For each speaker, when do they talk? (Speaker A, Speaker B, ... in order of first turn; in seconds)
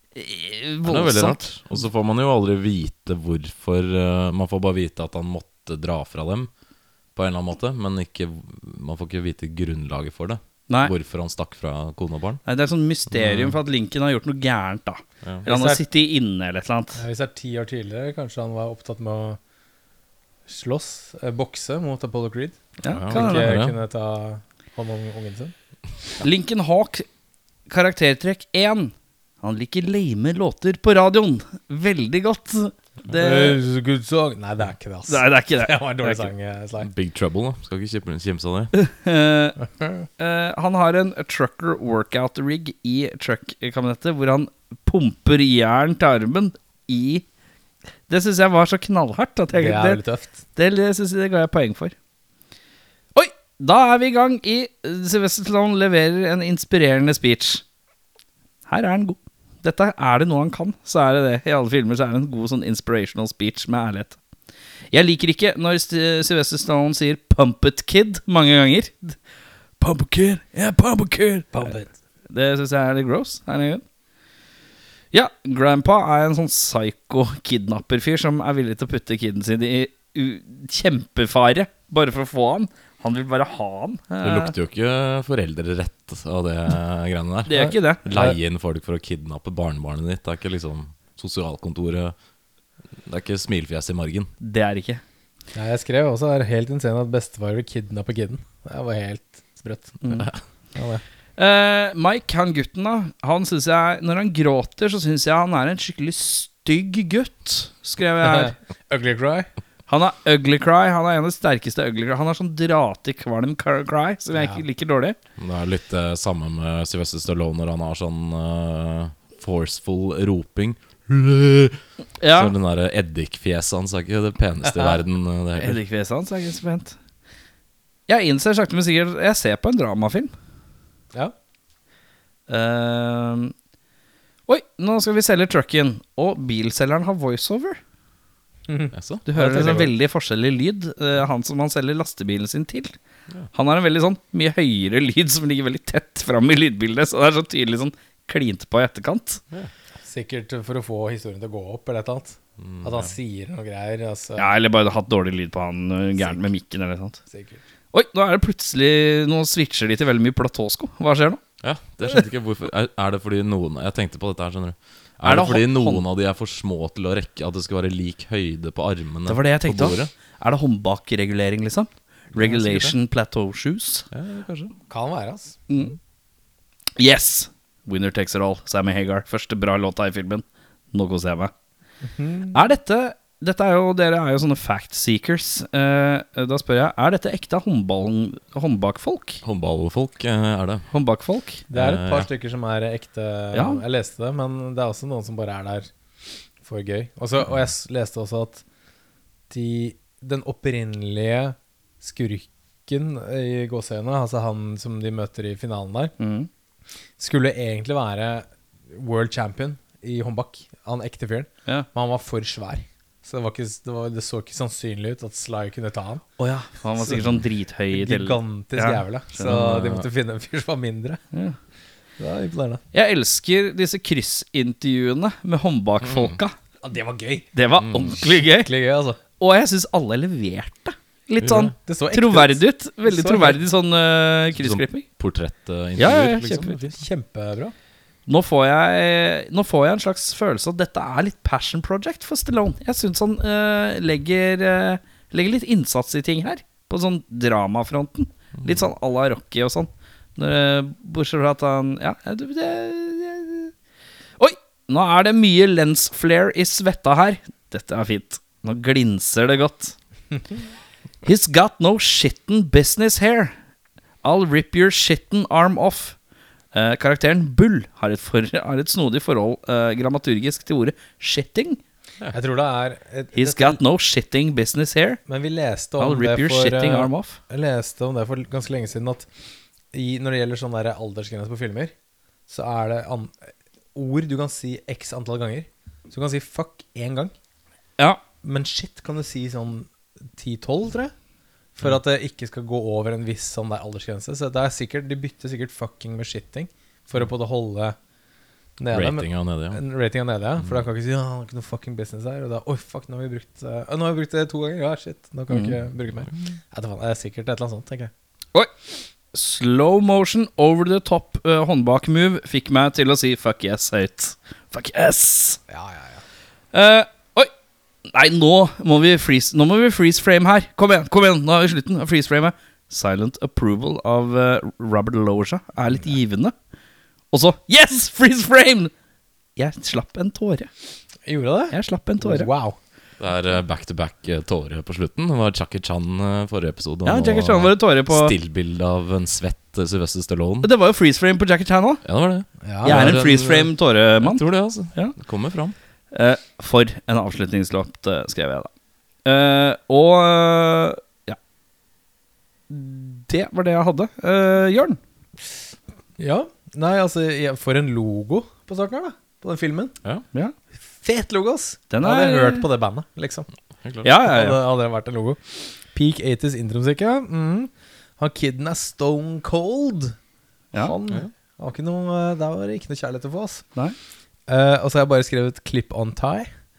Speaker A: 0.1-1.4, 12.4-17.0, 22.8-23.5, 26.2-27.1, 27.7-33.6, 35.1-36.3, 38.7-39.6, 40.2-47.2, 48.1-50.0, 50.5-51.9, 53.1-57.6, 58.7-64.2, 64.9-69.2, 69.8-71.7, 72.3-73.8, 75.1-84.5, 87.5-88.0, 94.4-95.0, 100.0-100.3, 101.4-108.5, 109.9-115.2, 122.2-122.5, 125.6-127.0, 128.1-130.3, 132.5-133.5, 134.5-137.8, 139.2-142.9, 143.5-149.4, 154.4-157.2, 157.9-161.4, 165.2-166.0, 169.3-174.1, 175.7-176.0, 177.0-181.5, 182.5-189.4, 190.9-191.7, 193.5-193.8, 206.2-206.5, 216.4-219.0, 222.9-226.6, 227.5-228.7, 229.4-235.1, 236.0-236.8, 238.3-253.7, 254.4-259.9, 261.2-263.5, 264.2-266.2, 266.7-271.8, 273.3-275.2, 276.0-277.4, 305.5-305.8, 309.3-315.6, 316.7-317.5, 318.1-326.5, 327.3-328.9, 329.6-330.7, 331.7-332.5, 337.0-338.3, 340.6-342.0, 342.8-345.1, 346.1-348.7, 349.2-351.4, 352.7-355.0, 361.9-362.6, 364.0-364.6
Speaker B: 0.8-6.5, 7.1-12.4, 13.1-13.6, 22.9-23.8, 36.8-38.7, 84.2-92.1, 93.0-94.3, 115.4-125.8, 138.9-139.2, 152.6-153.1, 161.6-170.1, 172.3-172.9, 174.1-174.7, 189.4-190.9, 191.7-192.3, 219.4-220.1, 226.0-226.4, 231.4-231.7, 234.5-236.9, 298.9-299.8, 333.2-340.7, 342.0-345.7, 363.8-364.1
Speaker C: 15.4-15.8, 17.0-19.4, 20.5-25.5, 33.1-36.9, 39.6-40.1, 49.5-50.4, 71.5-71.9, 87.6-88.4, 95.5-100.0, 100.7-101.0, 108.2-109.5, 114.3-114.6, 124.7-125.0, 138.7-139.9, 150.0-154.5, 157.3-157.6, 174.9-175.6, 182.0-182.6, 191.7-195.9, 196.6-198.6, 199.5-206.1, 207.2-217.4, 217.9-221.2, 222.2-222.8, 226.8-227.5, 228.5-229.2, 231.8-233.6, 236.6-237.7, 272.3-273.8, 275.3-279.3, 279.9-281.9, 282.5-287.3, 288.4-291.1, 291.8-298.0, 298.8-308.1, 315.7-316.2, 331.2-332.8, 342.6-343.2, 356.2-359.9, 361.0-363.5, 364.2-370.1, 370.7-373.6, 374.5-376.5